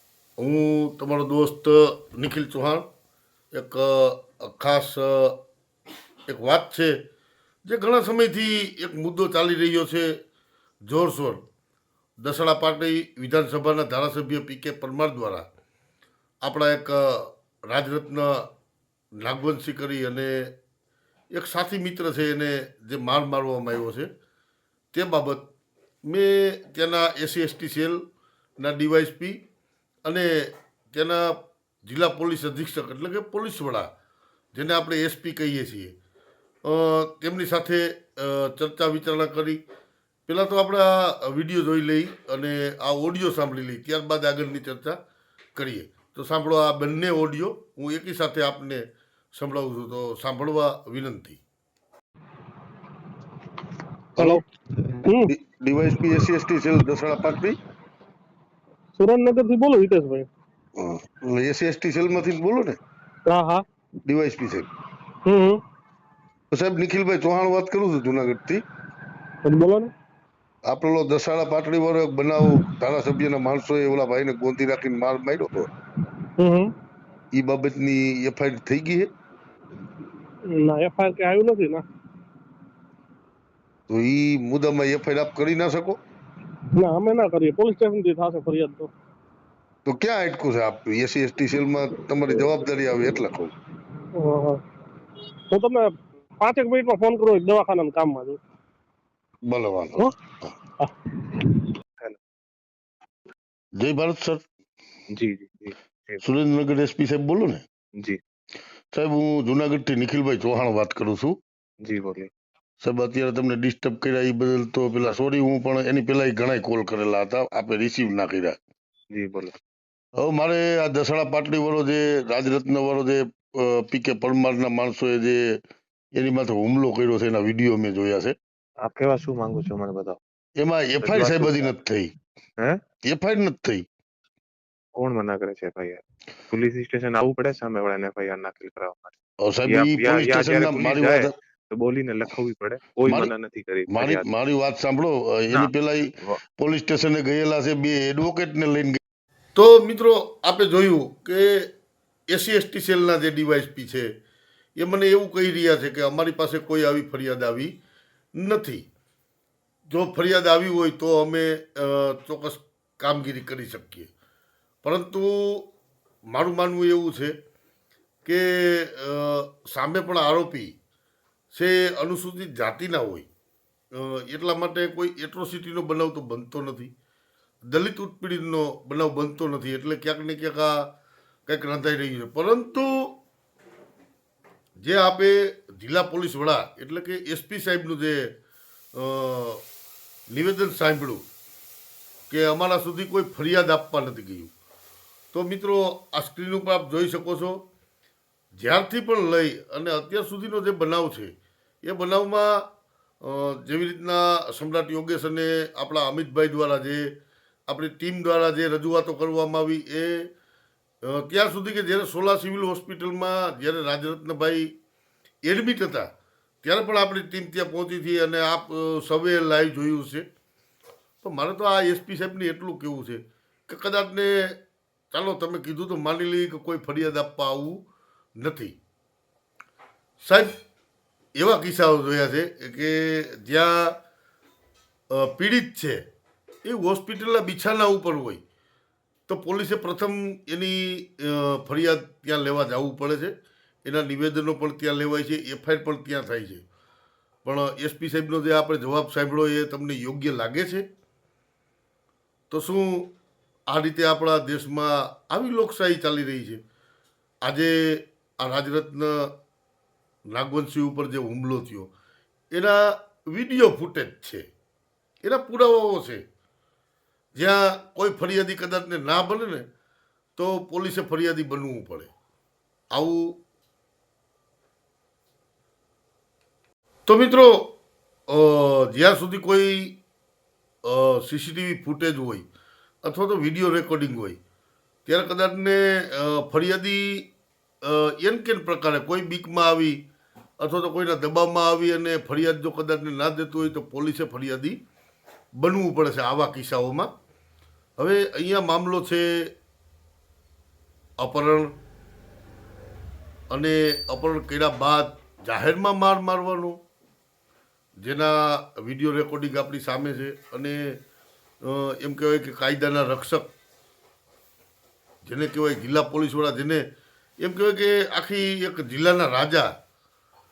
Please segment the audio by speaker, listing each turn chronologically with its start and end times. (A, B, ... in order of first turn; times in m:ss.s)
0:00.4-0:02.8 A
0:03.5-0:05.4 A
0:06.3-0:07.0 A
0:07.7-0:10.2 A
0:10.9-0:11.4 A
0:12.2-0:15.5 A
0:16.4-0:18.5 A
0:19.2-0:20.5 A
0:21.3-0:24.1 A
0:24.9-0:25.4 A
0:26.1-0:28.0 A
0:28.6-0:29.4 A
0:30.0-0:33.9 A
0:34.6-0:35.9 A
0:36.6-0:39.6 A
0:40.3-0:45.0 A
0:45.6-0:51.4 A
0:54.2-0:54.4 A
0:55.3-0:57.6 A
0:59.0-1:00.2 B
1:00.8-1:02.8 A
1:03.3-1:03.6 B
1:04.1-1:04.7 A
1:05.3-1:05.6 B
1:06.5-1:08.6 A
1:09.4-1:09.9 B
1:10.7-1:15.7 A
1:16.4-1:16.7 B
1:17.3-1:19.1 A
1:20.5-1:21.7 B
1:23.9-1:26.0 A
1:26.8-1:28.9 B
1:29.8-1:33.5 A
1:34.2-1:34.5 B
1:36.4-1:38.4 B
1:39.4-1:40.5 A
1:43.8-1:44.4 A
1:45.1-1:46.2 C
1:46.2-1:47.6 A
1:48.9-1:51.4 A
1:51.8-1:52.3 C
1:52.8-1:58.6 A
1:59.1-1:59.5 C
2:00.2-2:05.4 A
2:06.2-2:08.4 A
2:08.8-2:10.2 C
2:10.6-2:12.1 A
2:11.0-2:11.7 C
2:13.1-2:13.8 A
2:15.0-2:24.3 C
2:19.4-2:21.3 A
2:23.1-2:23.3 A
2:23.9-2:29.0 A
2:25.5-2:26.4 C
2:29.6-2:31.7 A
2:32.3-2:34.1 A
2:34.8-2:37.7 A
2:38.4-2:38.9 A
2:39.9-2:44.1 A
2:44.8-2:45.6 A
2:46.3-2:47.3 A
2:48.2-2:50.7 A
2:51.5-2:53.3 A
2:54.0-2:56.9 A
2:57.7-3:00.9 A
3:01.5-3:02.9 A
3:04.8-3:08.3 A
3:09.0-3:09.6 A
3:10.3-3:11.2 A
3:12.3-3:14.5 A
3:15.3-3:17.6 A
3:18.6-3:21.3 A
3:21.8-3:22.6 A
3:23.2-3:27.1 A
3:27.7-3:30.3 A
3:31.1-3:34.7 A
3:35.5-3:36.1 A
3:36.6-3:40.2 A
3:41.2-3:44.6 A
3:45.1-3:47.8 A
3:48.4-3:48.8 A
3:50.2-3:50.5 A
3:51.4-3:54.0 A
3:55.1-3:56.0 A
3:56.6-3:58.4 A
3:59.3-4:03.3 A
4:03.8-4:06.6 A
4:07.4-4:10.8 A
4:12.5-4:13.1 A
4:13.7-4:16.6 A
4:17.4-4:19.3 A
4:20.3-4:21.9 A
4:22.5-4:24.4 A
4:25.2-4:26.2 A
4:27.4-4:29.6 A
4:30.4-4:32.1 A
4:32.9-4:33.3 A
4:37.1-4:37.7 A
4:38.3-4:39.9 A
4:40.9-4:42.5 A
4:43.0-4:44.4 A
4:45.1-4:47.2 A
4:47.8-4:50.0 A
4:50.6-4:54.8 A
4:55.6-4:57.1 A
4:58.0-4:59.5 A
5:01.2-5:01.7 A
5:03.5-5:06.8 A
5:08.0-5:11.0 A
5:11.6-5:13.5 A
5:15.3-5:16.8 A
5:17.4-5:19.7 A